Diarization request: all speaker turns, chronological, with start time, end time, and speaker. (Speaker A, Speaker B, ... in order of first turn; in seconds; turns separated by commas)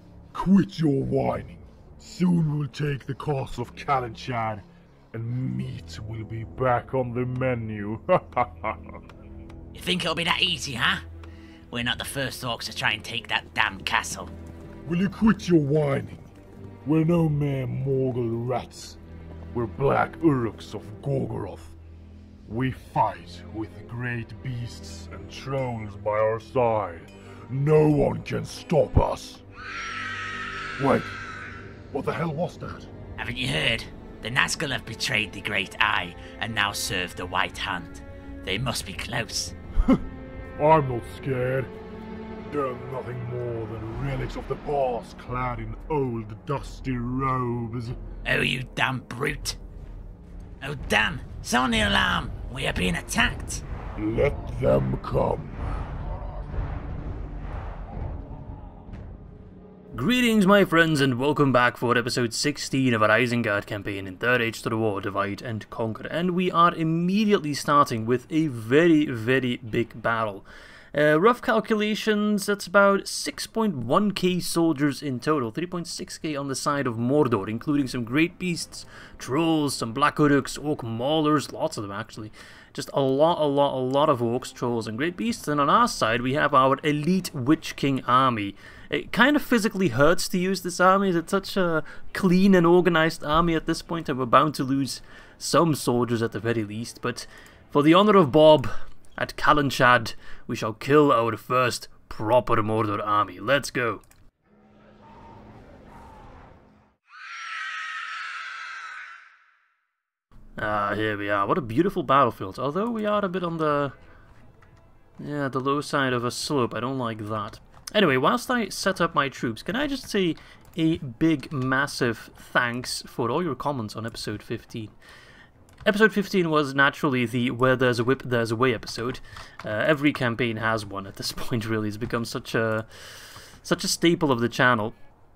Speaker A: 0.3-9.0, Speaker B: 9.7-11.0, Speaker B: 11.7-14.3, Speaker A: 14.8-16.3, Speaker A: 16.8-19.0, Speaker A: 19.5-21.7, Speaker A: 22.4-29.4, Speaker A: 30.8-31.2, Speaker A: 31.9-32.9, Speaker B: 33.2-39.5, Speaker A: 40.6-41.7, Speaker A: 42.5-48.0, Speaker B: 48.2-49.6, Speaker B: 50.6-53.6, Speaker A: 54.0-55.7, Speaker C: 59.9-104.0, Speaker C: 110.6-113.9, Speaker C: 115.2-124.9, Speaker C: 125.8-134.9